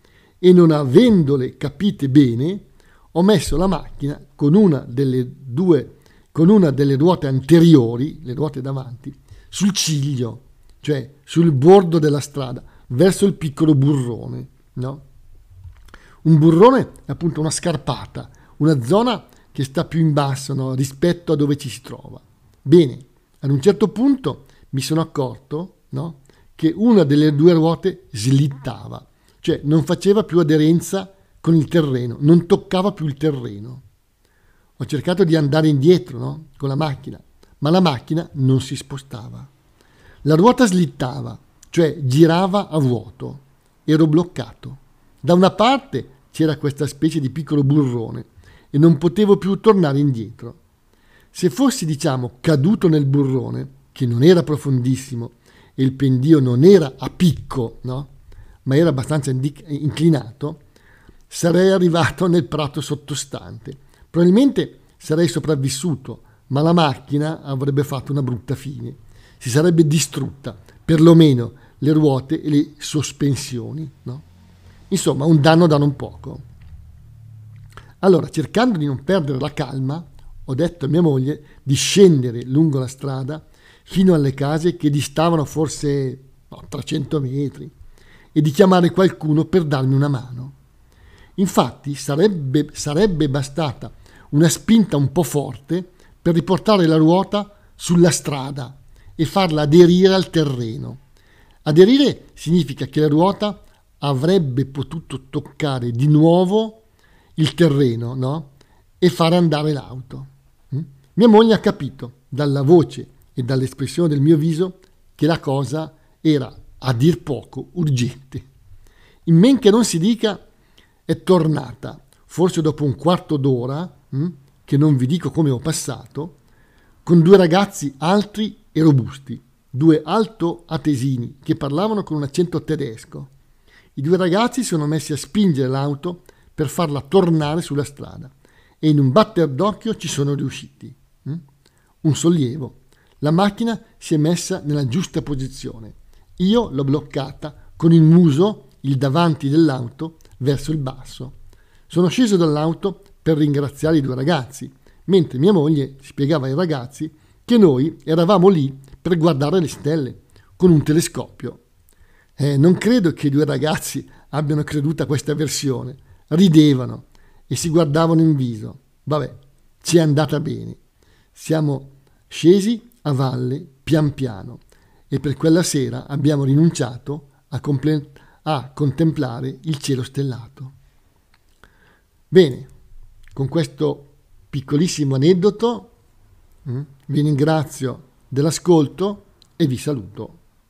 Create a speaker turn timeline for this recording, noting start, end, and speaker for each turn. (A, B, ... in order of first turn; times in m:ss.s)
0:00.4-0:15.0 A
0:16.2-0:33.8 A
0:34.8-0:39.5 A
0:40.2-0:50.6 A
0:51.3-0:58.1 A
0:58.6-1:00.6 A
1:01.3-1:14.2 A
1:14.9-1:16.4 A
1:18.0-1:27.7 A
1:28.4-1:30.6 A
1:31.4-1:41.0 A
1:41.6-1:46.8 A
1:47.4-1:58.5 A
1:59.3-2:00.4 A
2:01.1-2:06.4 A
2:07.0-2:13.3 A
2:14.0-2:21.4 A
2:22.0-2:31.4 A
2:31.9-2:41.6 A
2:42.4-2:50.8 A
2:51.4-3:00.7 A
3:02.3-3:02.7 A
3:03.4-3:05.9 A
3:06.7-3:10.4 A